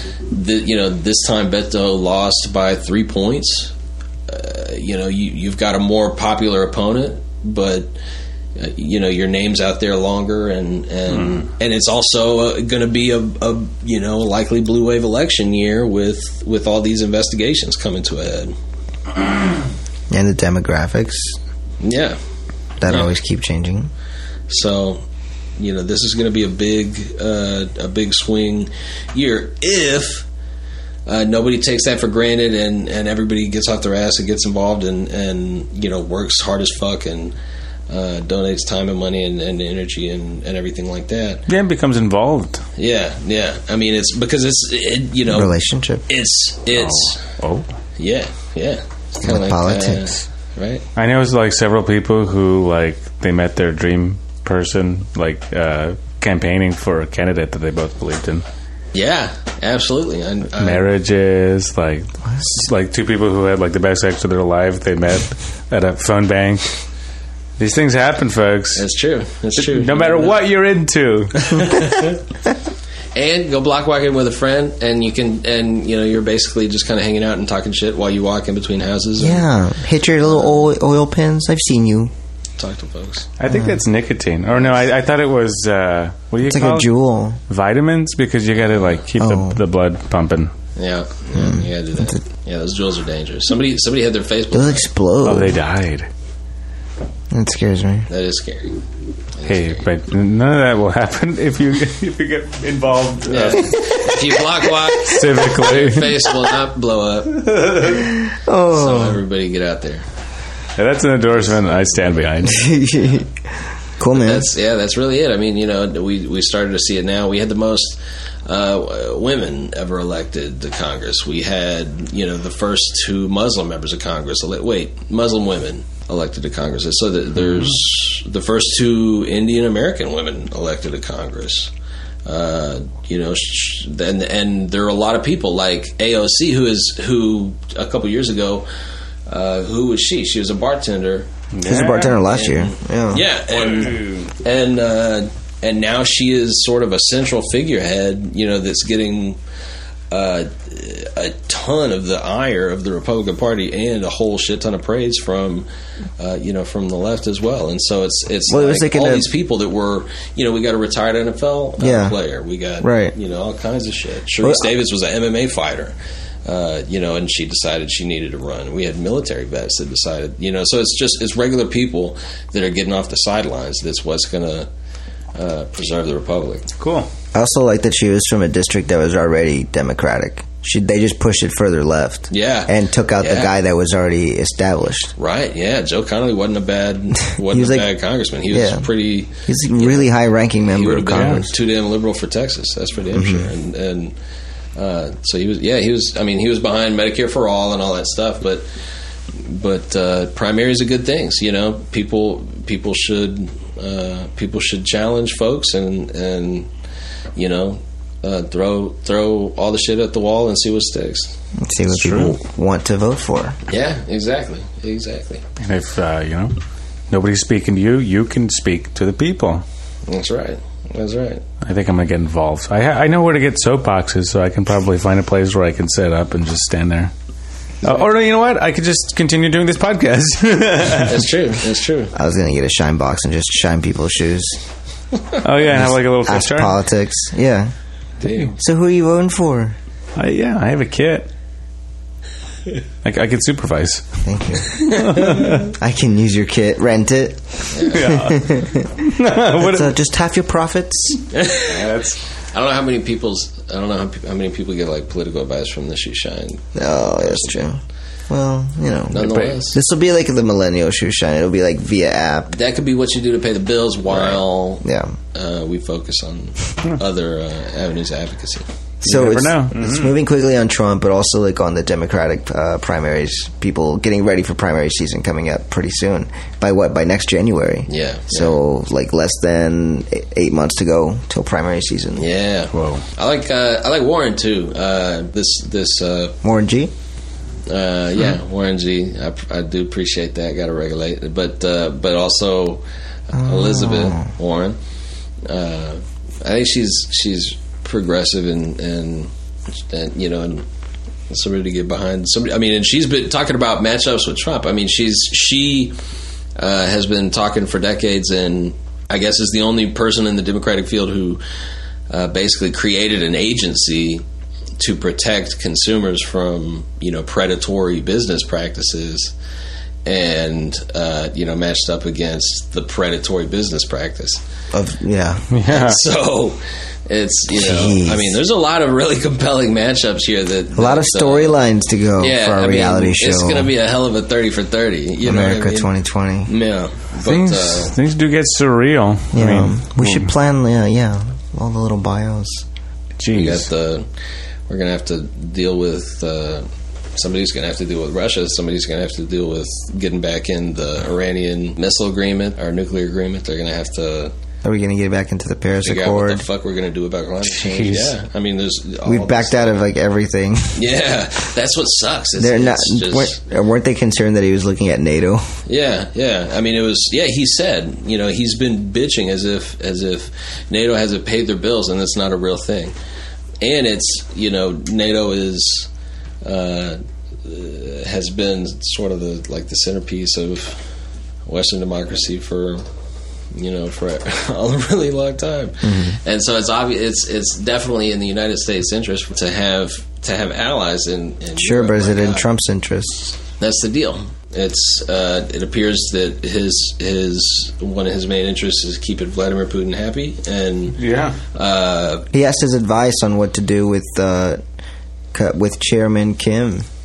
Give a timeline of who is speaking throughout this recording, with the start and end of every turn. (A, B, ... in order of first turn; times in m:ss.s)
0:00.3-0:03.7 A
0:04.3-0:07.9 A
0:08.6-0:18.5 A
0:20.1-0:21.4 B
0:21.8-0:22.2 A
0:22.8-0:23.9 B
0:24.5-0:25.0 A
0:25.6-0:30.3 A
0:31.1-0:37.4 A
0:37.9-0:41.4 A
0:41.5-0:42.6 C
0:42.8-0:45.5 A
0:45.3-0:46.0 B
0:46.1-0:47.2 A
0:46.7-0:47.7 C
0:48.0-0:50.8 A
0:49.2-0:50.1 B
0:51.0-0:58.4 C
0:58.9-1:00.8 A
1:00.6-1:06.7 C
1:07.6-1:08.8 C
1:08.8-1:10.4 A
1:09.6-1:11.6 C
1:11.4-1:12.2 A
1:13.2-1:19.5 A
1:19.2-1:22.1 B
1:22.6-1:23.3 A
1:23.4-1:26.9 C
1:23.5-1:23.8 B
1:26.4-1:27.4 B
1:27.5-1:30.5 C
1:29.2-1:29.6 B
1:30.8-1:34.9 A
1:31.4-1:32.2 B
1:34.5-1:35.6 B
1:35.2-1:36.1 C
1:37.3-1:38.1 B
1:38.1-1:38.8 A
1:39.4-1:39.8 A
1:39.5-1:44.0 C
1:43.3-1:48.0 A
1:45.0-1:46.1 C
1:47.5-1:47.9 C
1:48.3-1:49.2 B
1:48.7-1:50.0 A
1:50.8-1:52.7 C
1:52.4-1:53.3 B
1:54.0-1:54.5 B
1:54.1-2:11.7 A
2:12.3-2:18.7 A
2:19.3-2:21.3 A
2:21.5-2:22.2 C
2:21.6-2:23.2 B
2:22.3-2:29.4 A
2:23.6-2:24.3 C
2:30.1-2:35.7 A
2:36.2-2:54.7 A
2:38.5-2:39.3 B
2:41.8-2:42.2 B
2:42.8-2:43.1 B
2:55.4-2:56.7 A
2:56.8-2:57.1 C
2:57.3-3:05.1 B
3:02.3-3:03.5 A
3:05.2-3:10.1 A
3:07.5-3:07.9 B
3:08.5-3:08.9 B
3:09.5-3:11.5 B
3:10.7-3:14.1 A
3:11.2-3:11.4 C
3:13.1-3:13.5 B
3:14.8-3:18.7 A
3:19.3-3:26.7 A
3:27.4-3:31.3 A
3:31.6-3:33.6 B
3:31.9-3:32.4 C
3:33.7-3:35.4 A
3:35.6-3:36.6 C
3:37.1-3:39.6 C
3:40.1-3:41.4 A
3:41.6-3:47.1 C
3:47.8-3:51.2 C
3:51.0-3:52.1 A
3:52.1-3:54.6 B
3:55.4-3:56.8 C
3:55.6-3:57.7 B
3:58.2-3:58.6 A
3:58.6-3:59.8 B
4:00.2-4:01.3 C
4:03.0-4:04.2 C
4:04.2-4:11.2 B
4:04.8-4:05.7 C
4:07.7-4:08.1 A
4:07.8-4:09.9 C
4:11.3-4:17.6 A
4:11.7-4:12.1 C
4:16.8-4:22.5 B
4:19.1-4:19.8 A
4:19.1-4:19.6 C
4:22.5-4:28.7 A
4:24.1-4:25.2 B
4:29.0-4:30.2 C
4:29.0-4:42.3 B
4:37.9-4:38.6 A
4:42.2-4:46.4 A
4:42.7-4:43.0 C
4:46.4-4:46.9 B
4:47.7-4:54.8 A
4:53.4-4:54.2 B
4:55.4-4:59.3 A
4:59.9-5:00.6 A
5:01.3-5:06.0 A
5:06.6-5:11.4 A
5:12.1-5:14.2 A
5:14.8-5:19.3 A
5:20.0-5:24.4 A
5:24.7-5:25.5 B
5:25.5-5:26.0 C
5:25.7-5:31.6 A
5:27.5-5:28.4 B
5:30.8-5:33.7 B
5:32.2-5:35.9 A
5:35.2-5:36.5 B
5:36.5-5:37.9 A
5:37.2-5:40.3 C
5:39.3-5:42.6 B
5:43.2-5:43.7 C
5:43.3-5:44.1 A
5:44.7-5:54.3 A
5:54.6-5:56.4 B
5:55.8-5:59.8 A
5:57.5-5:58.2 C
5:59.0-6:00.8 B
6:00.8-6:03.4 A
6:02.4-6:05.4 B
6:05.7-6:12.9 A
6:13.6-6:15.9 A
6:16.4-6:20.8 A
6:21.5-6:22.8 A
6:23.5-6:32.4 A
6:25.8-6:26.2 B
6:31.6-6:33.4 B
6:33.6-6:41.0 A
6:41.0-6:41.4 C
6:41.5-6:42.3 A
6:42.3-6:44.6 B
6:45.3-6:46.9 B